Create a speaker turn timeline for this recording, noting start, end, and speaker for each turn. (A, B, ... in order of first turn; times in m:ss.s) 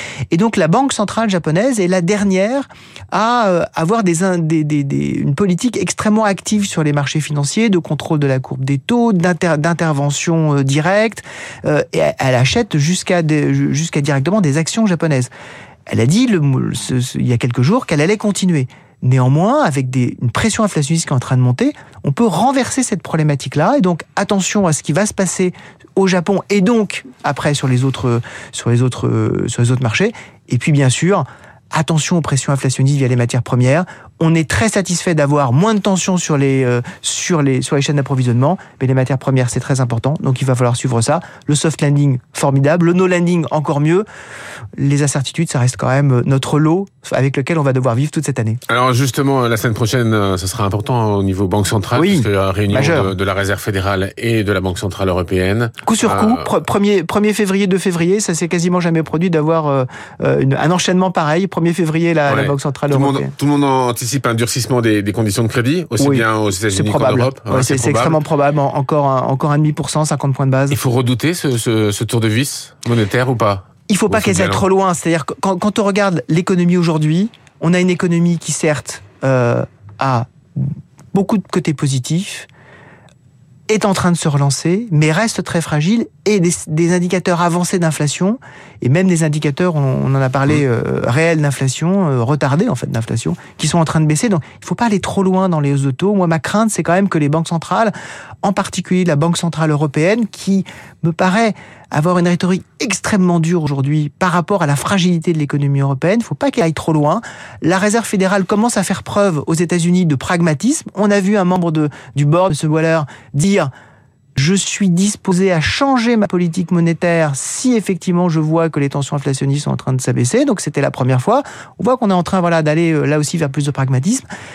0:00.3-0:15.3 A
0:15.9-0:44.1 A
0:44.8-0:48.6 A
0:48.7-0:56.5 B
0:52.0-0:53.1 A
0:55.8-1:03.3 A
1:02.3-1:08.2 B
1:06.0-1:10.8 A
1:10.7-1:14.6 B
1:13.9-1:22.5 A
1:23.7-1:53.7 A
1:54.4-2:04.3 A